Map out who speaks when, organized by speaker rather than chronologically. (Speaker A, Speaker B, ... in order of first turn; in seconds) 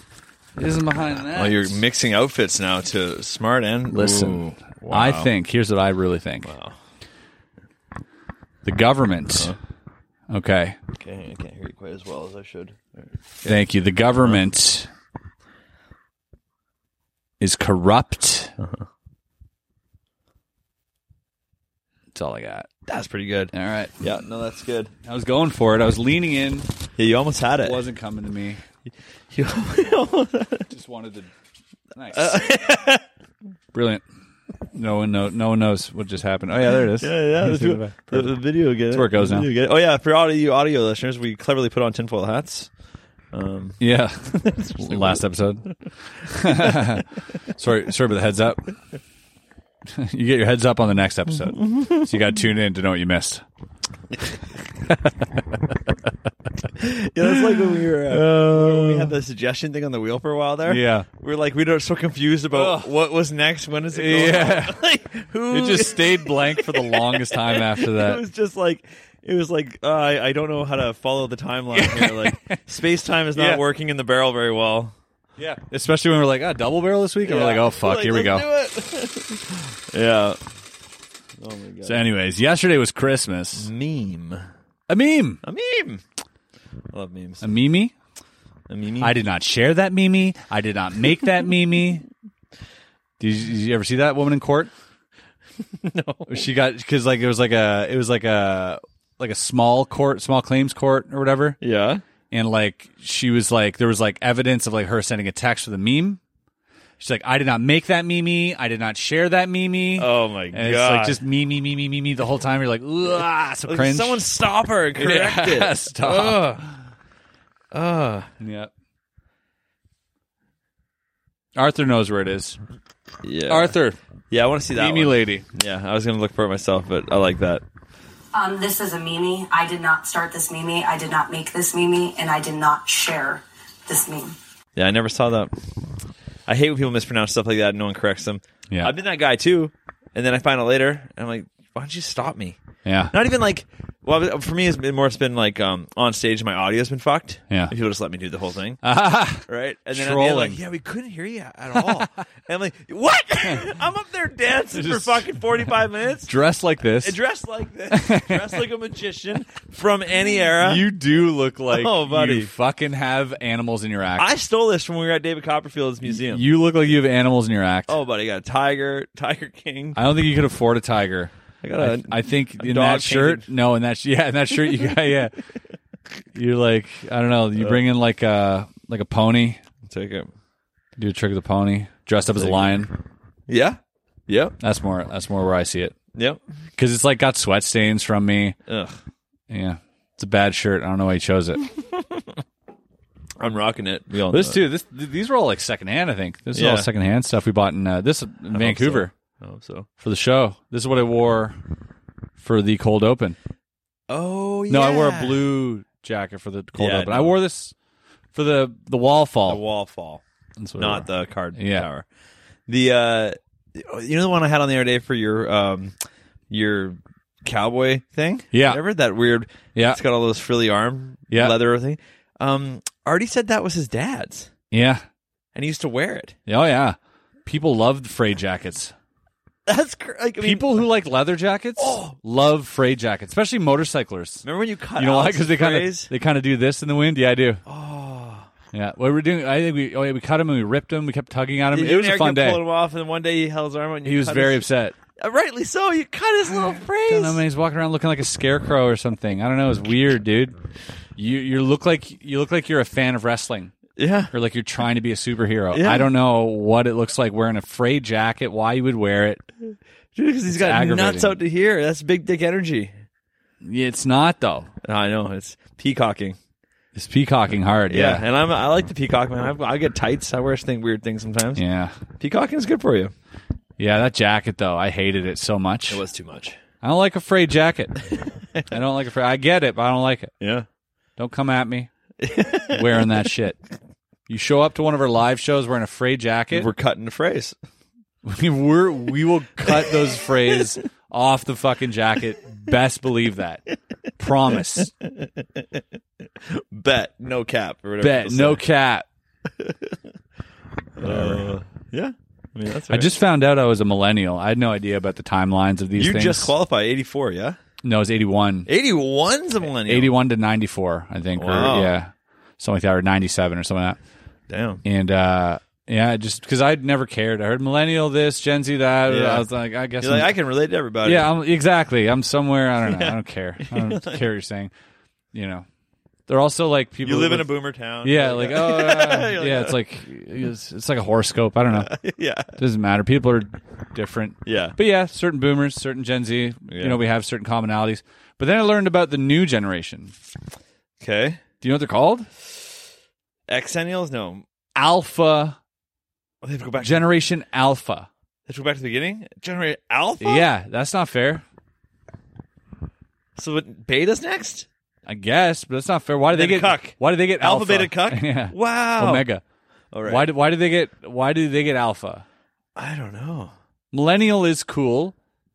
Speaker A: 0.6-1.8, 3.9-6.5, 8.7-9.6, 10.3-10.8, 13.4-14.9, 17.4-18.5, 22.1-22.7, 23.5-24.0, 25.1-26.7, 27.6-28.6, 30.7-31.3, 32.0-32.4, 33.7-34.0, 34.7-38.4, 38.9-39.5, 43.8-48.7, 50.0-53.4, 54.9-55.4, 57.8-59.1, 60.7-61.1, 62.5-62.9, 63.9-64.8, 65.5-68.2, 71.7-72.6, 73.3-73.6, 75.4-78.5, 81.8-83.7, 84.9-85.4, 87.4-87.9, 89.0-92.0, 93.2-94.7, 96.3-101.6, 102.3-106.2, 107.0-114.2, 115.0-116.7, 118.4-118.7, 121.6-122.6, 123.5-124.0, 124.8-125.4, 142.8-143.1, 148.8-150.6, 154.8-155.3, 156.3-157.2, 157.9-158.6, 160.6-164.3, 166.1-167.9, 169.9-175.3, 176.3-179.6, 181.0-182.9, 184.6-185.9, 186.8-188.6, 189.5-191.6, 194.3-199.1, 200.0-201.6, 202.4-203.4, 204.7-207.7, 208.3-209.6, 210.6-211.9, 218.5-218.8, 219.8-220.0, 221.3-221.6, 224.7-225.0, 226.5-228.9, 230.4-234.4, 235.0-237.6, 238.7-242.6, 244.1-244.9, 247.1-250.6, 251.2-253.7, 254.3-259.4, 260.5-261.4, 263.6-264.7, 266.9-268.2, 271.6-271.9, 273.8-276.0, 276.8-278.0, 278.7-280.3, 281.2-281.9, 282.7-283.6, 284.3-286.7, 288.2-293.6, 294.2-294.9, 298.0-299.1, 301.0-301.5, 302.9-306.5, 307.8-308.7, 309.8-314.0, 314.8-320.3, 321.0-324.7, 325.3-325.7, 326.3-327.5, 328.0-331.9, 332.6-340.1, 341.6-342.3, 344.8-345.6, 346.8-348.1, 350.2-351.4, 355.1-359.4, 360.1-362.2, 363.9-365.1
Speaker B: 1.3-5.3, 6.4-6.8, 11.0-13.1, 22.9-24.9, 27.0-27.8, 29.3-30.7, 32.1-33.0, 37.0-42.7, 43.3-45.2, 51.6-52.0, 56.8-74.9, 77.2-80.4, 81.4-82.0, 83.6-84.5, 85.4-86.0, 86.9-87.5, 88.7-89.1, 95.8-96.4, 101.6-102.0, 110.0-111.2, 113.7-116.7, 117.7-118.3, 123.2-123.8, 124.3-127.6, 134.8-135.5, 136.5-142.6, 143.1-148.8, 149.5-156.3, 157.0-160.9, 161.7-162.5, 164.2-166.5, 167.9-170.0, 171.6-173.5, 179.9-180.3, 182.4-182.7, 183.5-184.6, 186.2-186.4, 188.7-188.9, 193.4-194.6, 196.6-196.9, 198.5-199.9, 204.1-205.4, 206.8-207.3, 209.5-210.2, 210.8-212.1, 212.7-215.9, 216.5-224.5, 225.6-226.4, 229.7-230.9, 231.8-232.2, 234.4-236.1, 237.7-238.5, 241.7-244.7, 245.2-247.4, 254.0-254.3, 255.7-256.1, 260.2-262.9, 264.8-266.4, 267.9-271.6, 272.2-273.1, 275.9-276.6, 280.4-280.7, 282.2-283.2, 286.5-287.6, 290.3-290.6, 296.5-298.6, 299.6-299.9, 301.0-303.1, 306.0-307.6, 308.7-310.1, 311.4-311.9, 314.5-314.8, 319.1-319.5, 320.0-321.3, 322.9-324.2, 327.0-329.8, 331.7-332.5, 334.5-334.8, 336.7-337.0, 341.0-341.4, 343.5-344.4, 346.4-347.1, 348.5-350.5, 353.4-354.7, 356.3-359.3, 359.9-360.3, 362.8-363.5
Speaker C: 128.3-134.4